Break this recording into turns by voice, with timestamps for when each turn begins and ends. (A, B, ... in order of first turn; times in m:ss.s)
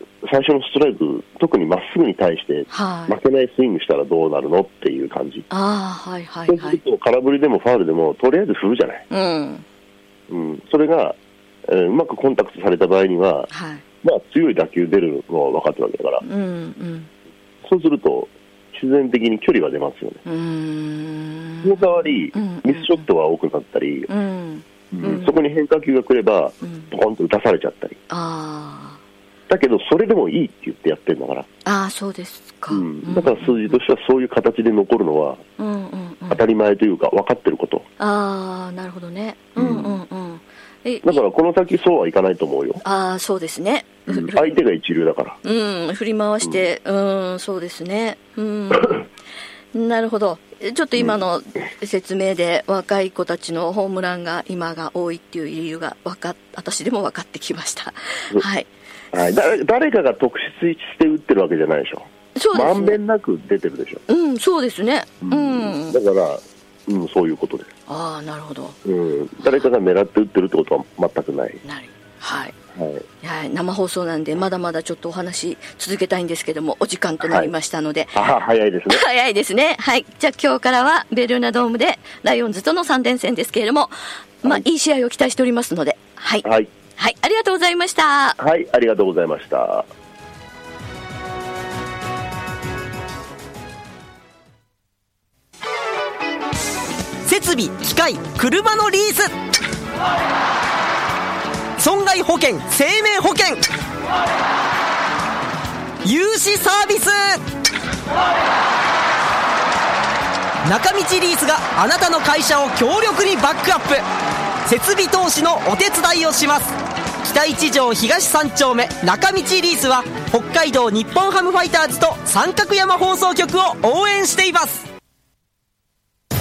0:00.2-0:05.5 A
0:02.7-0:03.2 B
0:05.5-0:06.8 B
0:06.5-0:09.0 A
0:09.1-0:09.6 B
0:10.3-0:13.5 A
0:13.5-0:13.8 B
0:14.0-0:16.2 A
0:16.2-0:17.1 B
0:17.6-0:20.2 A
0:20.2-0:23.0 B
0:21.6-0:24.1 A
0:24.1-0:25.4 B
0:24.9-0:28.0 A
0:26.6-0:26.9 B
0:28.1-0:29.0 B
0:29.5-0:31.5 A
0:31.6-0:33.8 B
0:32.7-0:35.4 A
0:35.6-0:36.4 B
0:36.3-0:37.8 A
0:38.0-0:41.2 B
0:39.6-0:40.0 A
0:41.0-0:42.8 A
0:42.8-0:44.6 B
0:44.1-0:45.4 A
0:45.4-0:49.1 B
0:49.7-0:58.7 B
0:59.1-1:04.0 A
1:02.4-1:03.0 B
1:04.1-1:06.0 B
1:05.2-1:07.7 A
1:07.9-1:08.8 B
1:08.8-1:11.6 A
1:09.4-1:09.7 B
1:11.6-1:12.6 B
1:12.8-1:13.0 A
1:13.2-1:18.2 B
1:17.2-1:17.5 A
1:18.1-1:19.0 A
1:18.9-1:28.4 B
1:26.4-1:26.7 A
1:28.4-1:29.9 A
1:37.2-1:39.3 C
1:41.8-1:43.7 C
1:46.0-1:47.4 C
1:50.6-1:54.0 C
1:54.6-2:04.9 C